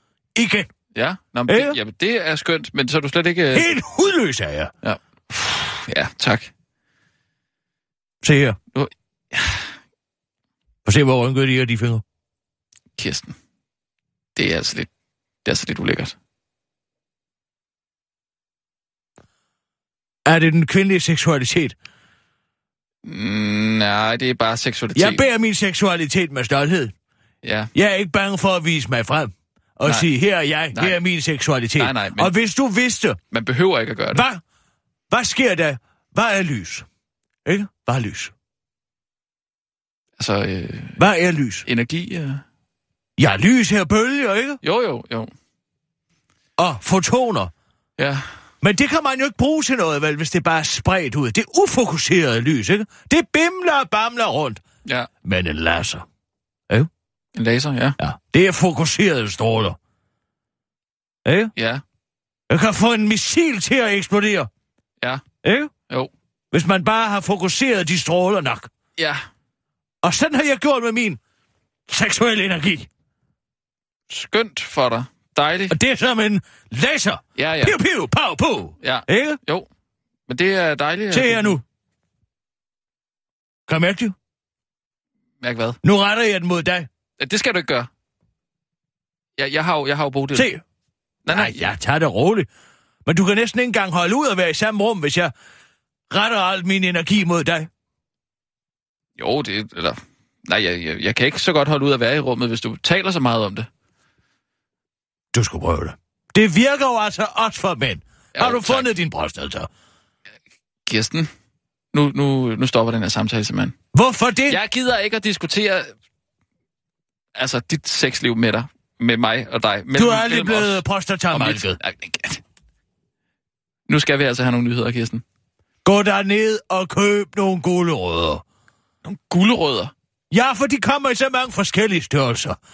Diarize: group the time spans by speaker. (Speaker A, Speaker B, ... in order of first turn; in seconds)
Speaker A: 0.3-0.7, 1.5-1.8, 3.5-4.7, 8.2-8.6, 10.8-12.0, 20.2-21.8, 24.9-26.9, 27.7-33.2, 34.1-34.4, 35.1-36.9, 37.4-38.3, 41.0-41.6, 43.2-44.6, 46.6-47.5, 48.6-54.6, 55.2-56.0, 58.0-59.8, 61.2-61.5, 62.5-64.5, 65.4-65.7, 66.5-68.7, 70.0-71.2, 71.9-72.9, 75.7-79.4, 81.1-81.6, 83.7-84.1, 85.8-86.9, 90.3-90.6, 91.3-92.5, 93.0-95.3, 96.1-97.7, 105.3-109.7, 113.9-114.6, 119.9-121.8, 125.8-128.4, 130.3-132.6
Speaker B: 0.9-3.7, 4.8-6.5, 8.7-9.7, 13.0-13.3, 14.3-14.9, 15.4-16.1, 23.0-25.3, 27.4-27.7, 29.8-30.1, 30.7-31.0, 31.8-32.3, 33.3-34.2, 40.2-41.0, 41.6-42.4, 44.6-45.3, 48.0-48.2, 57.3-58.0, 61.5-61.8, 69.0-69.2, 74.1-75.8, 77.3-77.8, 78.8-79.7, 80.3-81.6, 85.4-85.8, 87.2-87.9, 89.4-90.5, 91.2-91.7, 99.2-103.7, 108.3-108.9, 110.9-111.3, 111.9-113.8, 114.5-115.9, 117.3-122.4, 123.9-125.2, 129.0-129.9